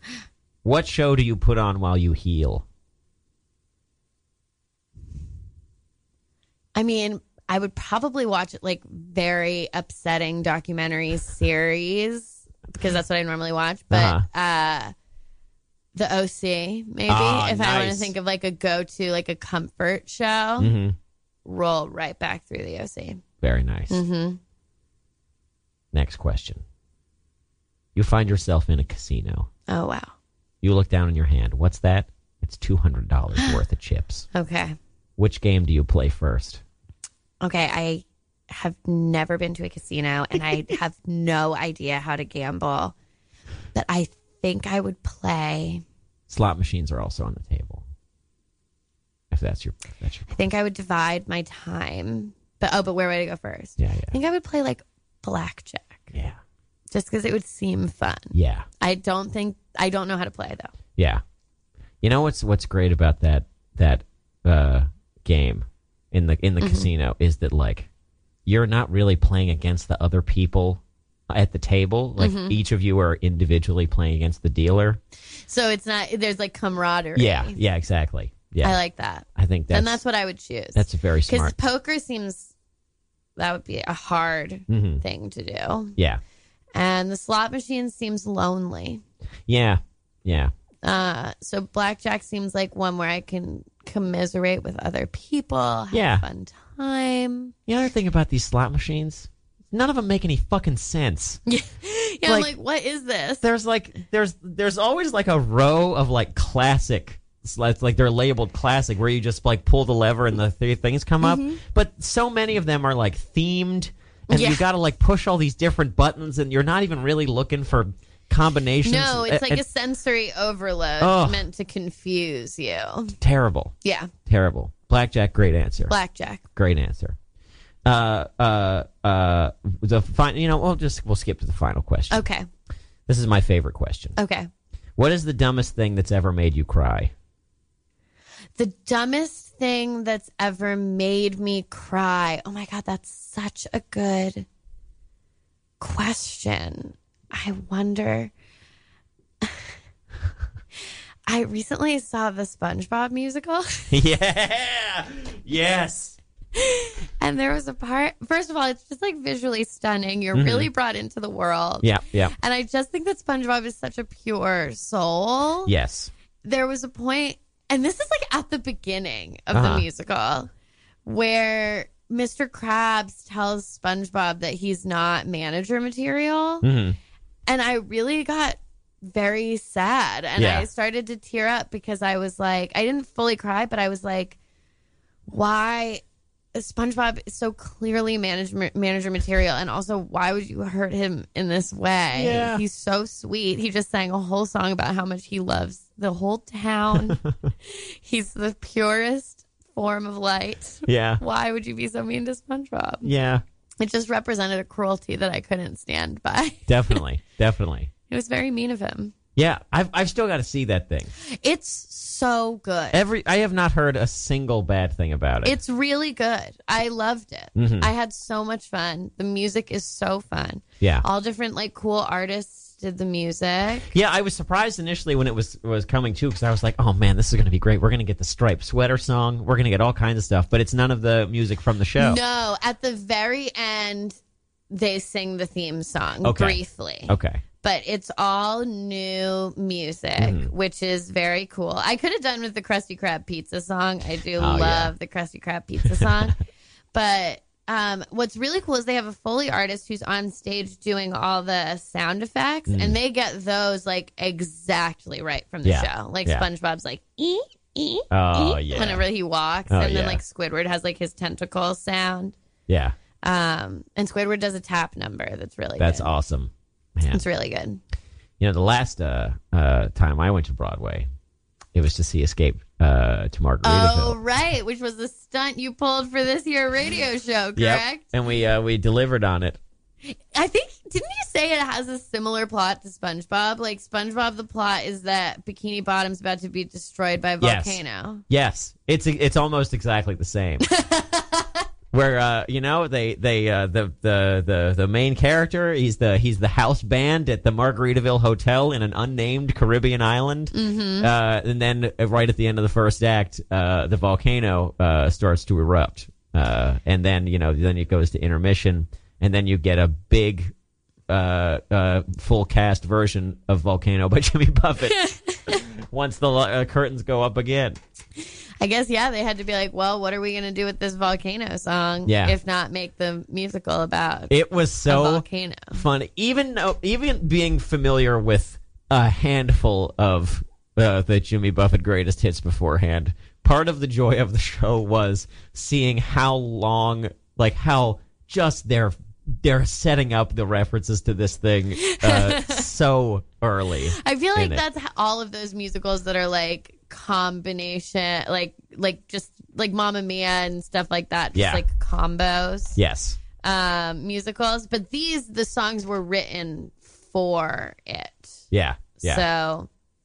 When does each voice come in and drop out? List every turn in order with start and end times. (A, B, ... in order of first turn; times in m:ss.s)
0:00.6-0:02.6 A
0:06.8-0:14.9 B
0:13.9-0:14.3 A
0:16.0-0:20.7 B
0:17.1-0:18.2 A
0:20.6-0:21.0 A
0:21.4-0:23.2 B
0:23.4-0:24.0 A
0:23.9-0:24.4 B
0:25.9-0:26.6 A
0:28.0-0:29.5 A
0:29.7-0:30.1 B
0:30.6-0:34.3 A
0:34.3-0:34.8 B
0:35.2-0:36.6 A
0:37.4-0:43.0 B
0:40.4-0:40.7 A
0:43.7-0:45.8 B
0:46.3-0:47.8 A
0:49.3-0:50.4 A
0:50.3-0:56.1 B
0:53.8-0:54.1 A
0:56.1-0:56.4 A
0:56.9-1:00.7 B
0:58.3-0:58.7 A
1:01.0-1:01.2 A
1:02.0-1:07.9 A
1:06.6-1:06.9 B
1:08.5-1:15.0 A
1:12.2-1:12.6 B
1:15.5-1:17.6 B
1:17.2-1:18.8 A
1:18.6-1:22.5 B
1:19.4-1:20.0 A
1:20.8-1:21.6 A
1:23.4-1:26.0 B
1:24.7-1:25.0 A
1:26.8-1:29.0 B
1:29.5-1:30.5 A
1:30.8-1:37.6 B
1:35.9-1:36.2 A
1:37.7-1:41.4 A
1:41.5-1:43.4 B
1:42.3-1:42.5 A
1:43.4-1:59.6 A
1:51.2-1:51.6 B
1:54.3-1:54.6 B
1:58.8-2:03.2 B
2:01.0-2:01.4 A
2:03.2-2:03.7 A
2:03.8-2:04.1 B
2:04.3-2:06.0 A
2:05.9-2:06.5 B
2:06.6-2:07.2 A
2:07.8-2:12.2 A
2:12.1-2:12.5 B
2:13.1-2:14.2 A
2:14.2-2:14.5 B
2:15.0-2:17.1 A
2:18.6-2:24.5 B
2:25.8-2:28.3 B
2:31.3-2:33.9 B
2:33.9-2:36.2 A
2:36.6-2:45.7 B
2:40.3-2:40.7 A
2:41.8-2:42.4 A
2:45.7-2:46.1 A
2:46.4-2:50.5 B
2:49.5-2:49.9 A
2:51.0-2:56.7 B
2:56.6-2:57.0 A
2:57.5-3:04.4 B
3:00.4-3:00.7 A
3:05.3-3:06.0 B
3:06.6-3:23.1 B
3:12.2-3:12.6 A
3:16.9-3:17.4 A
3:20.9-3:21.2 A
3:23.0-3:23.4 A
3:23.8-3:27.0 B
3:26.7-3:27.9 A
3:28.1-3:29.1 B
3:29.4-3:31.1 A
3:31.3-3:33.0 B
3:32.9-3:35.6 A
3:35.4-3:43.9 B
3:37.6-3:37.9 A
3:40.8-3:41.0 A
3:43.9-3:52.2 A
3:52.0-3:54.2 B
3:54.7-4:06.4 B
3:56.2-3:57.4 A
4:00.2-4:00.5 A
4:04.4-4:04.9 A
4:06.9-4:22.4 B
4:12.7-4:13.0 A
4:15.6-4:16.5 A
4:18.1-4:19.1 A
4:19.7-4:20.2 A
4:22.7-4:23.0 A
4:23.2-4:26.1 B
4:25.8-4:27.2 A
4:27.1-4:27.8 B
4:28.4-4:31.1 A
4:31.7-4:34.2 A
4:33.6-4:38.1 B
4:37.6-4:39.6 A
4:40.0-4:48.2 B
4:47.4-4:50.7 A
4:50.7-4:51.6 B
4:51.9-5:10.5 A
5:00.5-5:01.1 B
5:11.1-5:17.8 A
5:15.0-5:15.6 B
5:18.2-5:24.3 B
5:22.0-5:22.4 A
5:24.3-5:44.6 A
5:24.9-5:25.8 B
5:41.8-5:42.7 B
5:43.9-5:52.8 B
5:51.4-5:51.6 A
5:52.8-5:53.2 A
5:53.4-5:58.4 B
5:58.5-5:59.2 A
5:59.0-5:59.7 B